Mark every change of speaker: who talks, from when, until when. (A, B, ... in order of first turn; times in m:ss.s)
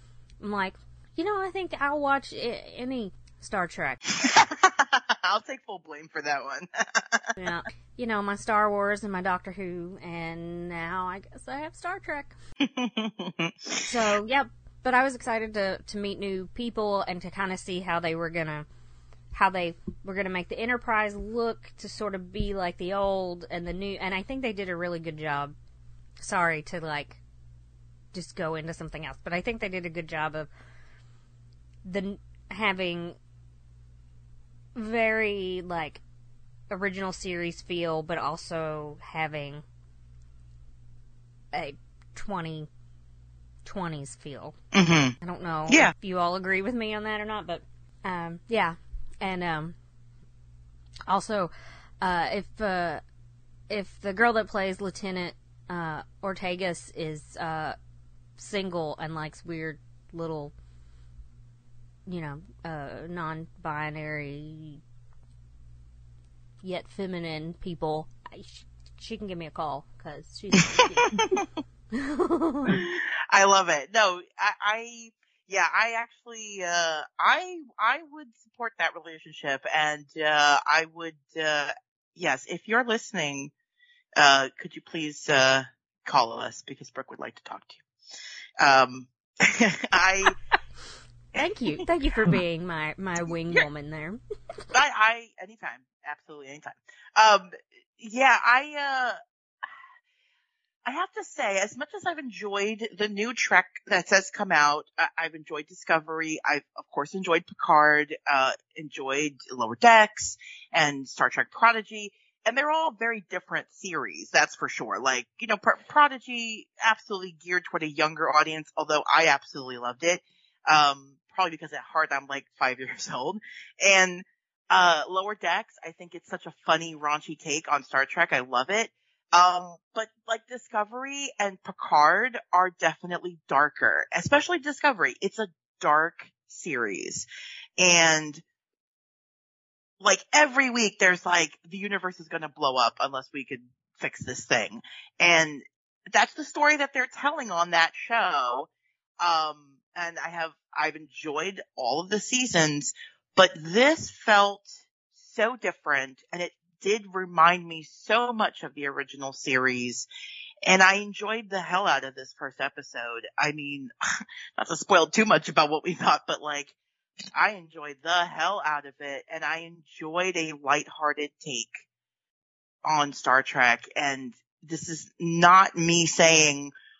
0:00.4-0:04.0 A
0:04.2-0:07.3 B
0:07.4-0:12.3 A
0:12.6-0:13.9 B
0:13.8-0:18.6 A
0:19.3-0:25.5 A
0:26.2-0:27.2 A
0:28.1-0:30.5 A
0:31.8-0:33.2 A
0:34.8-0:36.0 A
0:36.7-0:39.6 A
0:41.5-0:42.7 A
0:43.6-0:44.5 A
0:44.7-0:45.1 B
0:45.2-0:49.8 A
0:45.7-0:45.9 B
0:51.1-0:53.0 A
0:53.7-0:57.8 A
0:58.4-1:00.5 A
1:02.1-1:04.8 A
1:06.6-1:11.3 A
1:10.6-1:11.4 B
1:11.9-1:12.8 A
1:12.7-1:23.5 B
1:24.2-1:27.8 B
1:28.6-1:30.4 B
1:31.3-1:31.8 B
1:31.4-1:34.2 A
1:34.7-1:39.2 B
1:40.8-2:17.3 B
2:17.8-2:18.4 B
2:20.0-2:28.7 B
2:29.2-2:40.1 B
2:40.6-2:43.9 B
2:44.6-2:46.8 B
2:47.3-2:51.8 B
2:52.8-2:56.7 B